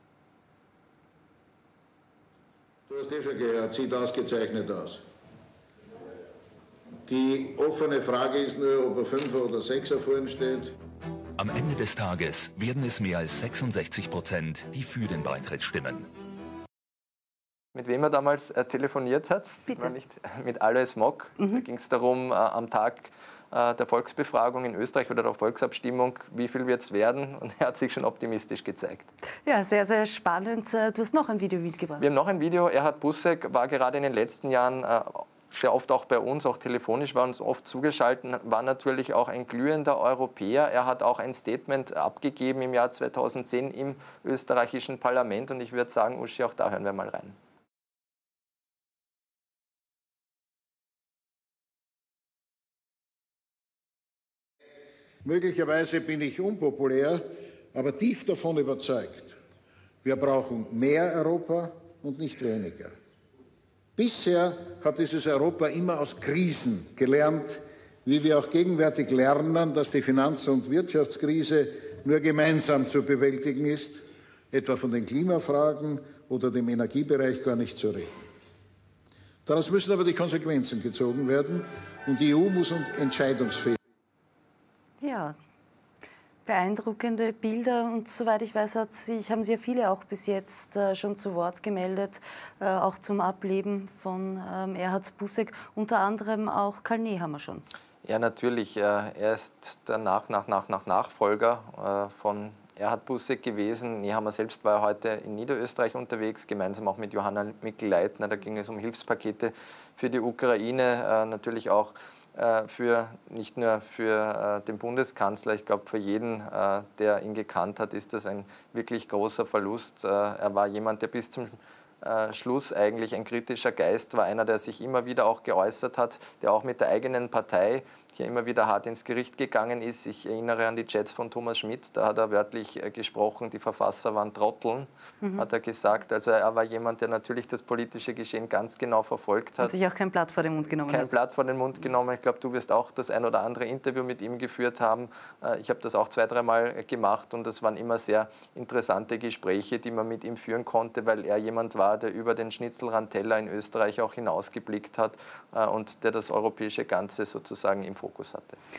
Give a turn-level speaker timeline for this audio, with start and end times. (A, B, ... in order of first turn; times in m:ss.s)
0:02.9-0:05.0 A
0:07.1-0:10.8 A
0:11.4-0:16.1 B
0:17.8-0:29.1 C
0:29.5-0:32.0 D
0:32.0-0:47.4 C
0:55.2-0:57.2 A
0:57.7-0:59.4 A
1:00.0-1:02.9 A
1:04.0-1:18.1 A
1:19.5-1:23.8 A
1:25.0-1:25.4 D
1:26.5-1:37.6 D
1:38.0-2:19.8 C
2:19.6-2:21.1 D
2:20.9-2:38.6 C